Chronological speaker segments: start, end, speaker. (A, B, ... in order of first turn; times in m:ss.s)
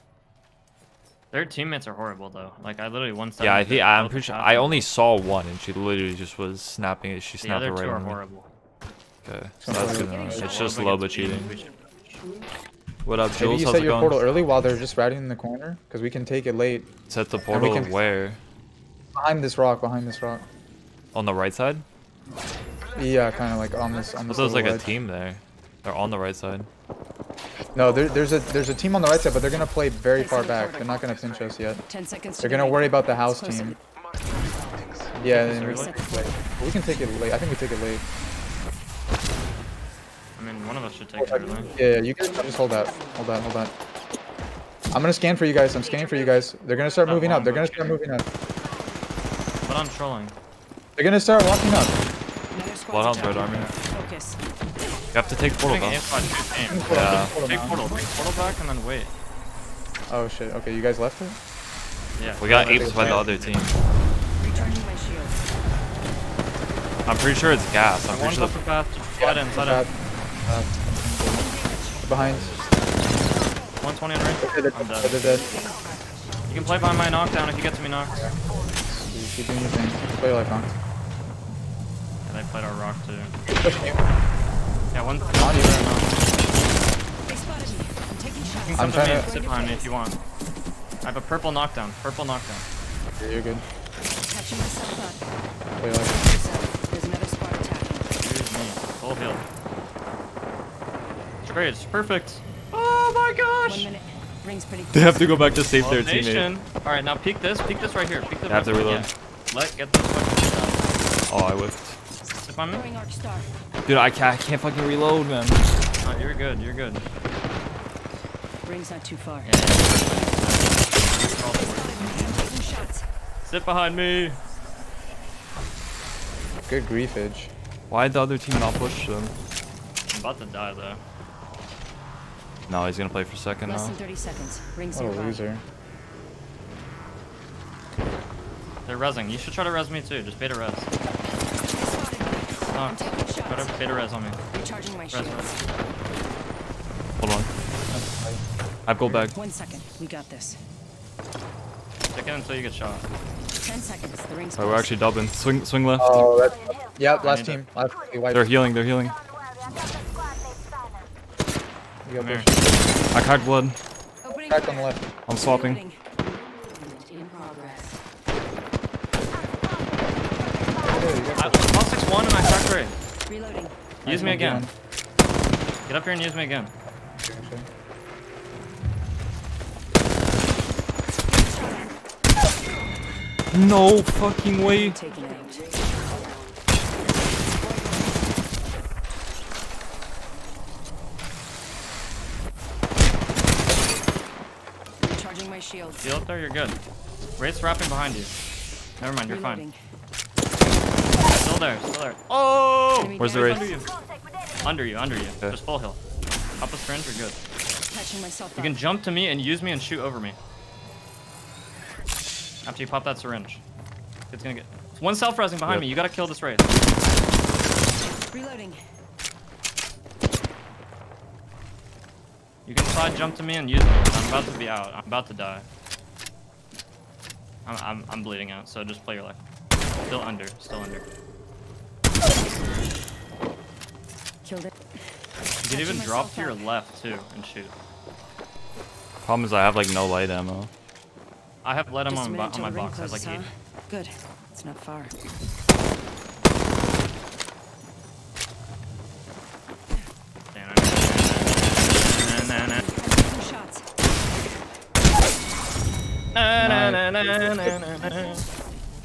0:01.3-0:04.9 A
0:03.4-0:08.2 B
0:07.4-0:08.5 A
0:09.2-0:11.5 B
0:09.6-0:10.5 C
0:09.7-0:10.6 D
0:10.2-0:12.2 A
0:13.0-0:14.2 B
0:13.4-0:16.9 C
0:17.1-0:18.4 B
0:17.5-0:18.0 C
0:19.1-0:20.4 C
0:21.1-0:21.8 B
0:22.9-0:24.9 C
0:24.3-0:26.7 B
0:27.7-0:31.8 C
0:30.2-0:30.8 D
0:31.9-0:33.8 D
0:32.4-0:33.8 C
0:35.2-0:38.0 C
0:35.2-0:35.9 A
0:35.6-0:36.4 D
0:40.4-0:41.7 A
0:41.2-0:43.7 C
0:44.9-0:48.2 C
0:47.0-0:48.0 A
0:49.6-0:50.4 A
0:51.0-0:52.0 C
0:52.5-0:54.4 D
0:52.9-0:53.7 B
0:53.3-0:53.7 A
0:55.1-0:56.0 B
0:55.6-0:59.1 A
0:56.6-0:57.8 C
0:56.9-0:57.3 B
1:00.1-1:01.4 C
1:02.2-1:03.6 A
1:02.4-1:03.7 B
1:02.4-1:03.3 C
1:04.4-1:05.4 D
1:07.0-1:08.6 B
1:08.1-1:09.9 A
1:09.2-1:12.6 C
1:11.4-1:12.0 D
1:13.8-1:15.4 A
1:14.4-1:15.5 C
1:15.5-1:15.8 D
1:16.5-1:18.2 A
1:16.6-1:17.0 C
1:18.2-1:20.7 C
1:22.2-1:23.4 A
1:23.5-1:24.0 C
1:24.9-1:26.2 A
1:25.4-1:25.8 C
1:27.3-1:29.9 D
1:28.4-1:30.2 A
1:28.8-1:29.3 C
1:31.0-1:32.7 A
1:33.2-1:33.6 C
1:34.2-1:35.2 D
1:35.8-1:36.2 C
1:36.1-1:38.1 D
1:38.2-1:39.4 A
1:41.4-1:43.9 A
1:43.6-1:45.5 D
1:44.9-1:46.5 B
1:45.7-1:50.9 A
1:48.5-1:49.1 B
1:51.3-1:52.0 B
1:52.4-1:52.9 A
1:52.7-1:53.5 D
1:53.8-1:55.6 B
1:56.0-1:57.0 A
1:58.6-1:59.5 D
1:59.4-2:02.2 A
2:01.4-2:03.0 D
2:03.4-2:04.4 A
2:06.6-2:07.5 C
2:07.9-2:09.4 B
2:10.1-2:11.0 A
2:12.7-2:14.0 B
2:13.6-2:15.4 D
2:14.9-2:15.6 C
2:18.8-2:20.9 A
2:21.7-2:23.7 D
2:22.7-2:24.4 A
2:24.5-2:25.6 D
2:25.1-2:25.6 A
2:27.2-2:27.5 B
2:27.9-2:28.4 C
2:28.8-2:29.3 B
2:29.0-2:29.3 A
2:29.3-2:30.6 D
2:32.1-2:33.0 A
2:33.6-2:34.9 D
2:34.6-2:36.3 B
2:36.0-2:38.5 C
2:37.2-2:37.7 A
2:38.3-2:39.2 B
2:42.0-2:42.8 C
2:42.2-2:42.5 A
2:43.1-2:43.8 B
2:44.2-2:46.0 D
2:44.2-2:45.0 C
2:45.3-2:45.8 B
2:47.0-2:47.9 D
2:50.8-2:51.8 C
2:51.4-2:53.0 A
2:53.3-2:54.3 D
2:54.0-2:54.7 A
2:54.0-2:54.7 C
2:55.8-2:56.7 A
2:57.2-2:57.7 C
3:01.6-3:01.8 D
3:03.5-3:05.0 B
3:04.6-3:05.6 D
3:15.0-3:16.0 D
3:16.0-3:16.8 A
3:17.4-3:18.3 A
3:19.0-3:19.7 A
3:19.3-3:19.8 D
3:21.3-3:23.9 A
3:23.0-3:23.8 D
3:23.2-3:23.7 B
3:24.6-3:26.0 A
3:26.6-3:27.4 A
3:27.9-3:28.8 D
3:28.6-3:30.4 A
3:32.6-3:33.6 A
3:34.3-3:36.8 A
3:35.6-3:35.9 B
3:38.3-3:38.8 D
3:42.6-3:45.7 A
3:47.6-3:49.4 A
3:50.0-3:51.1 A
3:54.4-3:54.8 D
3:55.6-3:57.7 A
3:55.7-3:56.6 D
3:59.2-4:00.7 B
4:01.6-4:03.4 A
4:02.1-4:05.1 D
4:10.5-4:12.9 A
4:12.4-4:13.8 D
4:16.3-4:18.5 A
4:16.6-4:17.6 C